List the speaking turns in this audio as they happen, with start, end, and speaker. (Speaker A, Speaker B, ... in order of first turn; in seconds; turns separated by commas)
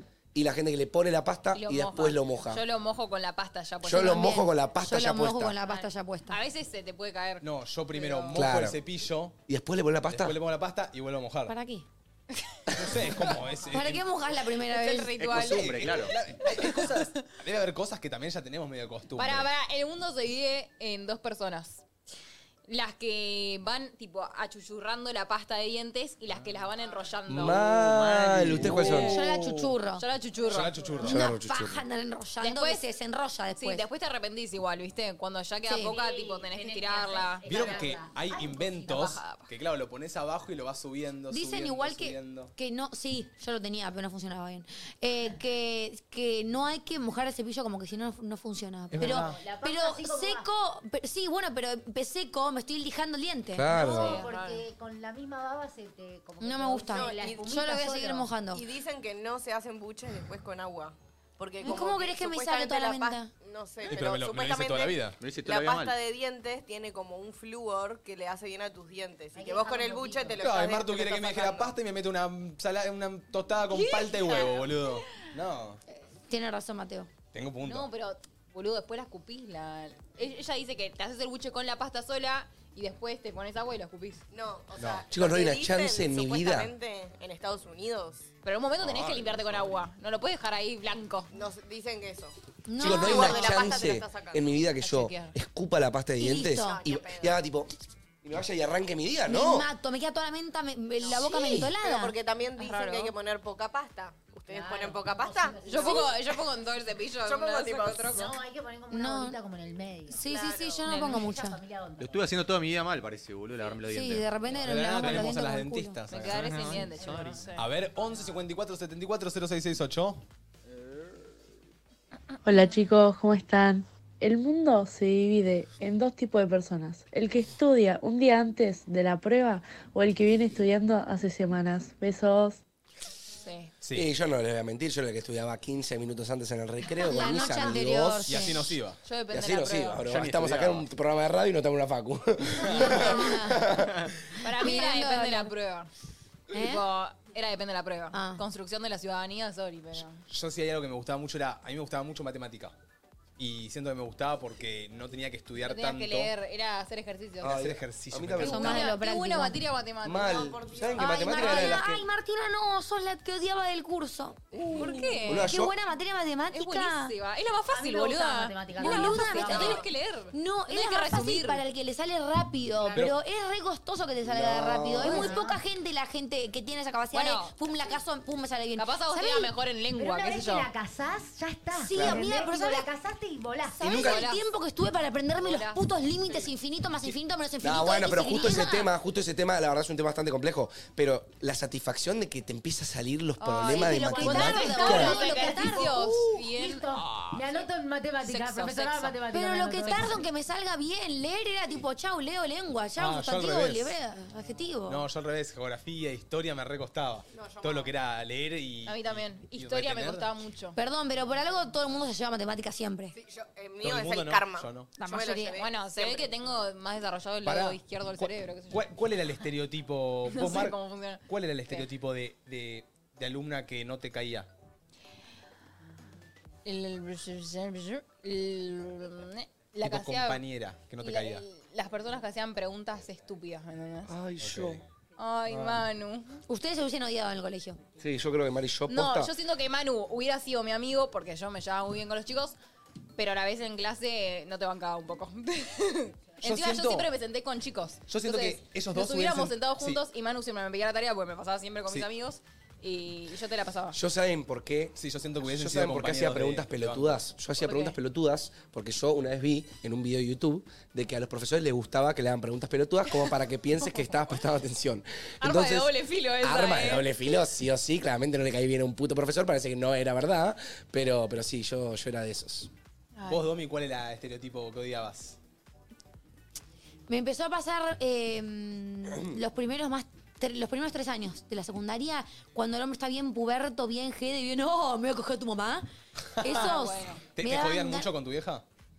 Speaker A: 0.3-2.6, Speaker B: 1.5-4.4, Speaker A: 3.8-5.5, Speaker C: 3.9-6.4, Speaker B: 5.6-8.4, Speaker D: 7.4-9.4, Speaker A: 8.3-8.8, Speaker A: 9.5-10.4, Speaker D: 10.1-11.5, Speaker C: 11.5-11.9, Speaker D: 12.8-14.0, Speaker C: 13.7-15.2, Speaker B: 14.7-17.2, Speaker E: 15.2-16.1, Speaker D: 15.3-19.5, Speaker B: 19.2-21.8, Speaker B: 22.7-27.7, Speaker A: 27.3-29.2, Speaker D: 27.8-29.8, Speaker C: 28.8-30.0, Speaker B: 28.9-29.1, Speaker B: 30.0-30.9, Speaker F: 30.4-31.1, Speaker D: 30.5-31.2, Speaker A: 31.0-31.9, Speaker C: 31.0-33.9, Speaker B: 32.4-32.8, Speaker B: 33.5-37.8, Speaker C: 35.6-35.9, Speaker F: 35.8-39.1, Speaker D: 37.5-42.5, Speaker B: 39.0-39.5, Speaker C: 41.3-54.1, Speaker D: 48.9-49.4, Speaker F: 49.0-50.5, Speaker A: 53.5-54.2, Speaker F: 53.7-58.4, Speaker B: 53.8-54.6, Speaker C: 56.4-58.6, Speaker G: 56.9-57.6, Speaker G: 58.5-71.7, Speaker C: 61.6-63.3, Speaker D: 63.9-65.2, Speaker E: 65.2-66.0, Speaker F: 69.3-70.5, Speaker D: 70.4-75.8, Speaker B: 73.7-75.2, Speaker C: 75.9-77.1, Speaker D: 77.3-77.9, Speaker B: 77.6-84.2, Speaker G: 84.3-88.3, Speaker D: 84.8-85.0, Speaker A: 85.1-86.7, Speaker B: 88.4-91.3, Speaker D: 88.8-89.7, Speaker G: 91.3-94.6, Speaker C: 92.7-93.6, Speaker A: 92.8-97.7, Speaker B: 92.9-93.6, Speaker B: 94.8-95.4, Speaker C: 96.2-96.8, Speaker G: 96.4-97.4, Speaker A: 98.2-99.7, Speaker C: 99.3-102.2, Speaker G: 101.0-106.2, Speaker B: 102.6-103.1, Speaker F: 104.5-106.2, Speaker B: 105.7-108.3, Speaker G: 107.2-108.4, Speaker F: 108.1-110.2, Speaker C: 108.9-109.4, Speaker C: 110.1-111.6, Speaker G: 110.3-110.9, Speaker B: 110.8-111.3, Speaker F: 111.0-112.3, Speaker E: 112.0-114.3, Speaker C: 113.9-116.0, Speaker D: 114.6-116.9, Speaker E: 115.0-115.3, Speaker B: 116.1-117.7, Speaker E: 116.3-117.5, Speaker F: 117.0-118.3, Speaker D: 117.6-120.2, Speaker H: 122.5-132.6, Speaker B: 133.4-133.7, Speaker D: 133.8-134.1, Speaker A: 133.9-138.7, Speaker C: 137.0-138.6, Speaker D: 138.3-139.0, Speaker B: 139.0-140.1, Speaker A: 139.3-144.1, Speaker D: 140.1-140.9, Speaker D: 142.6-143.0, Speaker C: 142.7-143.7, Speaker B: 144.4-145.9, Speaker C: 144.4-145.5, Speaker C: 146.5-146.8, Speaker B: 146.5-150.2, Speaker C: 148.1-148.4, Speaker D: 150.3-152.8, Speaker D: 153.4-156.3, Speaker B: 155.6-157.6, Speaker A: 157.4-158.7, Speaker D: 157.4-158.9, Speaker B: 158.4-160.7, Speaker C: 158.4-159.6, Speaker A: 160.0-162.1, Speaker G: 160.3-161.0, Speaker C: 161.0-167.2, Speaker B: 161.4-161.7, Speaker A: 164.5-165.7, Speaker B: 164.7-165.5, Speaker B: 166.5-171.6, Speaker F: 167.7-169.9, Speaker C: 168.8-179.5, Speaker A: 174.2-175.3, Speaker F: 175.0-175.6, Speaker B: 177.1-177.6, Speaker B: 178.8-180.7, Speaker F: 180.0-183.9, Speaker C: 181.7-182.9, Speaker A: 181.9-182.3, Speaker C: 183.7-188.9, Speaker A: 183.8-184.2, Speaker B: 183.9-184.5, Speaker B: 185.4-185.8, Speaker A: 187.6-195.3, Speaker B: 193.4-197.7, Speaker C: 193.7-195.9, Speaker F: 194.1-200.2, Speaker B: 198.2-199.2, Speaker C: 199.3-205.1, Speaker D: 203.0-204.0, Speaker D: 204.9-210.3, Speaker G: 207.3-207.9, Speaker B: 208.9-210.8, Speaker C: 210.8-213.2, Speaker G: 213.1-216.3, Speaker D: 213.8-214.9, Speaker C: 215.0-215.6, Speaker B: 215.5-218.8, Speaker D: 217.4-224.5, Speaker B: 220.3-221.9, Speaker B: 226.7-230.4, Speaker D: 229.8-231.4, Speaker B: 231.0-234.1, Speaker A: 234.1-234.8, Speaker D: 234.4-234.8, Speaker B: 235.2-236.4, Speaker D: 235.5-235.9, Speaker C: 236.5-237.8, Speaker A: 238.0-239.3, Speaker B: 238.9-242.6, Speaker B: 243.2-254.0, Speaker D: 246.4-247.1, Speaker D: 248.1-250.0, Speaker A: 253.9-272.7, Speaker D: 255.0-257.2, Speaker B: 257.6-258.0, Speaker B: 265.4-267.1, Speaker B: 273.2-273.4, Speaker D: 273.3-275.4, Speaker C: 277.1-285.9, Speaker A: 279.1-279.4, Speaker D: 286.4-286.7, Speaker C: 286.4-288.1, Speaker B: 286.4-287.3, Speaker D: 287.3-288.6